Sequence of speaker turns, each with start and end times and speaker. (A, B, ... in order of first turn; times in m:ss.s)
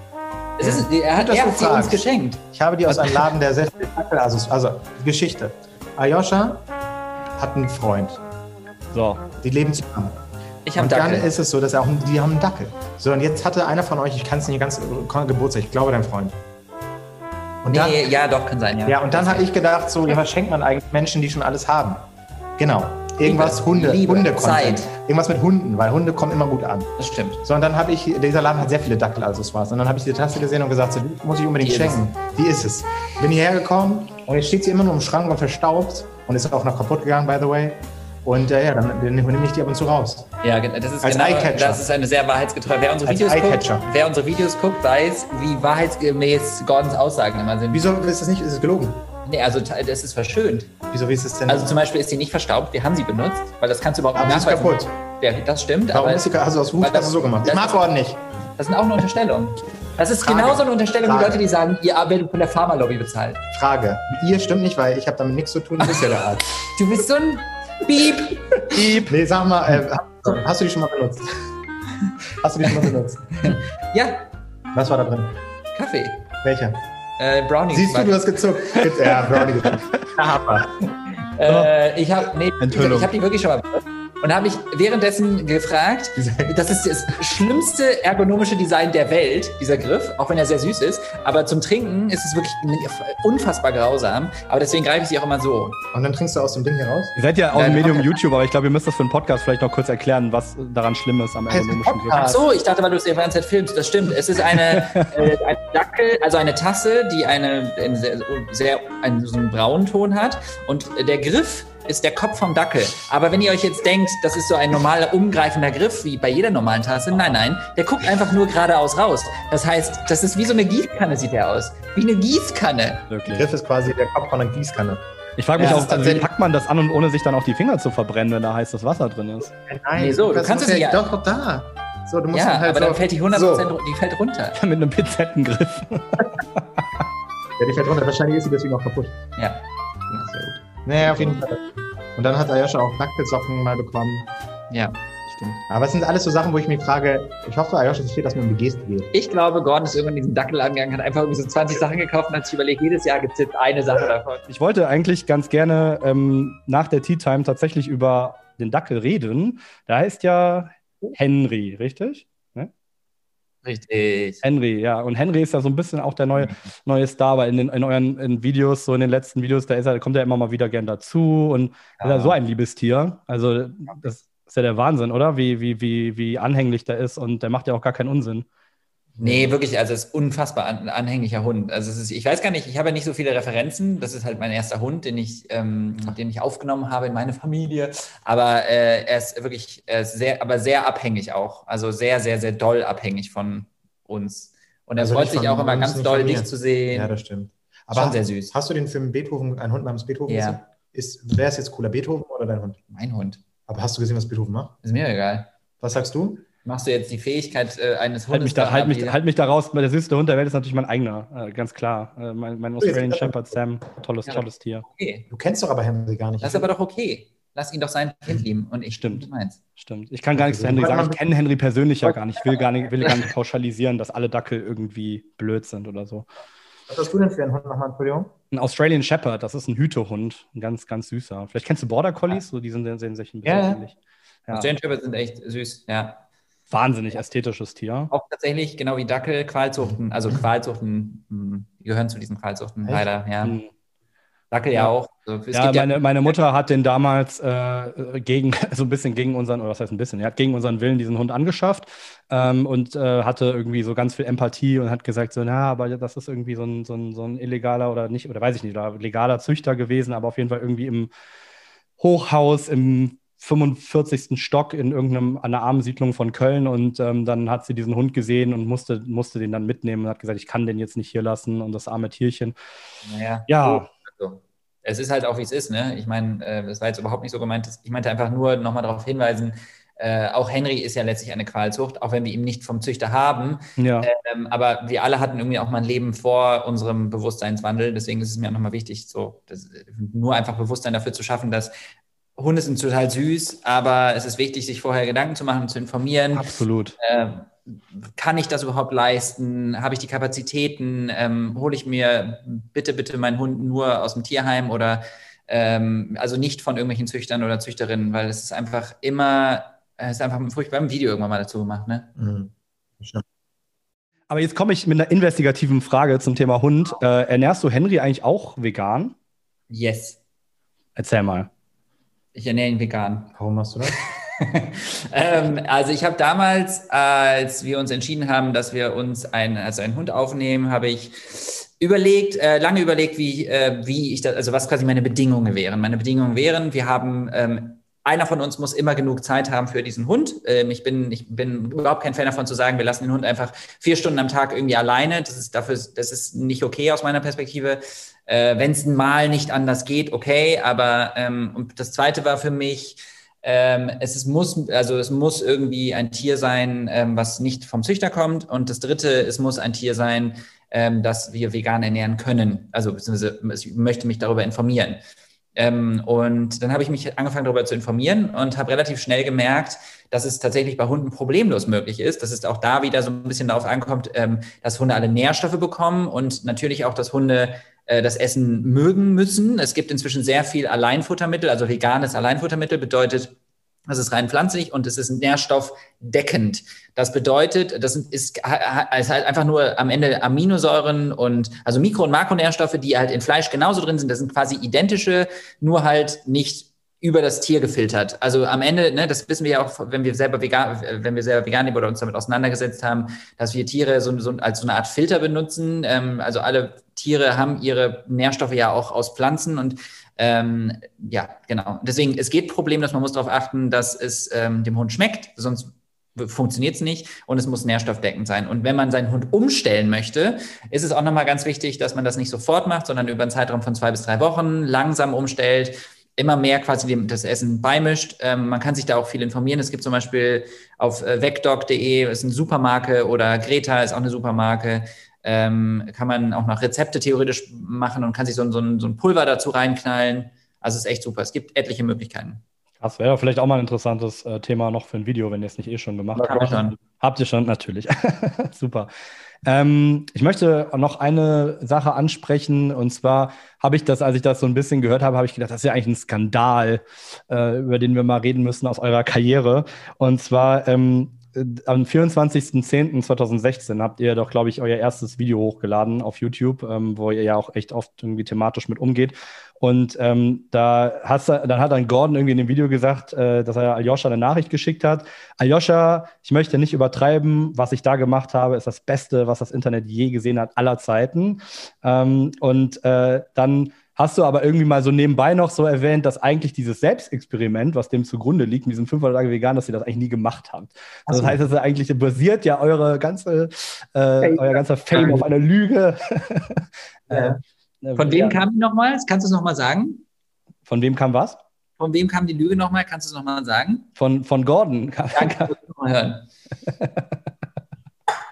0:00.6-0:03.2 A
0:00.6-0:06.6 B
0:07.4-0:08.2 B
0:08.9-0:09.2 C
0:09.4-0:10.2 B
0:10.7-0:11.3 A
0:10.8-0:16.4 B
0:17.6-0:18.1 B
0:17.7-0:19.5 A
0:18.8-0:22.0 B
0:22.6-0:26.9 B
0:23.2-0:24.9 A
0:27.0-0:27.4 A
0:27.4-0:40.3 B
0:31.6-0:32.0 A
0:40.4-0:47.9 A
0:41.0-0:41.8 B
0:43.0-0:43.8 B
0:47.7-0:49.0 B
0:49.2-0:50.7 A
0:50.9-0:51.8 B
0:51.5-0:57.8 A
0:54.1-0:54.9 B
0:55.9-0:58.2 B
0:58.6-1:03.4 A
1:00.2-1:01.4 B
1:03.5-1:06.5 B
1:06.7-1:08.8 A
1:08.7-1:09.1 C
1:09.0-1:11.4 B
1:12.4-1:13.6 B
1:13.4-1:14.3 A
1:14.7-1:15.4 B
1:15.7-1:16.2 A
1:16.4-1:16.8 B
1:17.2-1:18.4 A
1:17.7-1:20.7 B
1:21.4-1:35.8 A
1:22.6-1:23.1 C
1:26.2-1:26.6 B
1:35.9-1:37.2 B
1:37.2-1:42.3 C
1:37.5-1:38.2 A
1:41.5-1:42.4 B
1:42.2-2:03.1 A
1:44.6-1:45.1 C
2:03.1-2:03.4 C
2:03.3-2:06.3 B
2:05.4-2:09.5 C
2:05.6-2:05.9 A
2:09.5-2:13.8 B
2:10.0-2:11.0 A
2:12.3-2:14.6 A
2:14.6-2:16.8 C
2:17.6-2:19.2 B
2:20.1-2:24.3 B
2:24.7-2:25.6 A
2:25.7-2:29.1 B
2:29.1-2:34.4 A
2:34.5-2:42.7 C
2:43.6-2:44.4 A
2:44.4-2:58.4 C
2:52.0-2:52.3 A
2:59.2-3:17.1 A
2:59.2-2:59.5 B
3:15.0-3:22.8 B
3:17.9-3:18.5 A
3:20.3-3:20.6 A
3:22.9-3:23.4 A
3:23.7-3:24.8 B
3:24.8-3:25.5 A
3:25.8-3:26.4 B
3:26.6-3:29.2 A
3:28.3-3:34.8 C
3:32.8-3:33.6 B
3:34.2-3:35.2 A
3:35.3-3:36.7 B
3:36.4-3:39.6 A
3:38.9-3:39.2 C
3:39.8-3:46.3 C
3:40.4-3:41.2 B
3:46.9-3:48.3 B
3:48.5-3:54.0 C
3:53.4-3:53.8 B
3:54.5-3:56.2 A
3:56.7-3:58.1 C
3:58.1-4:03.5 A
4:03.4-4:03.7 C
4:04.5-4:06.4 A
4:05.5-4:21.1 C
4:22.0-4:32.6 C
4:33.0-4:51.7 A
4:33.5-4:33.9 C
4:43.8-4:44.1 C
4:52.4-5:12.1 A
4:56.3-4:57.0 C
5:12.2-5:13.2 B
5:14.3-5:19.1 C
5:19.7-5:20.2 A
5:21.0-5:21.5 C
5:22.3-5:23.3 A
5:23.4-5:24.0 B
5:23.8-6:05.0 A
6:05.6-6:23.3 A
6:23.9-7:22.4 A
7:22.8-7:28.9 C
7:26.1-7:26.8 A
7:29.4-8:18.4 C
8:11.1-8:11.4 B
8:14.2-8:15.2 A
8:17.1-8:17.4 B
8:18.0-8:20.0 A
8:20.7-8:21.4 C
8:21.8-8:23.9 A
8:24.0-8:25.5 C
8:25.1-8:26.2 A
8:26.8-8:27.2 C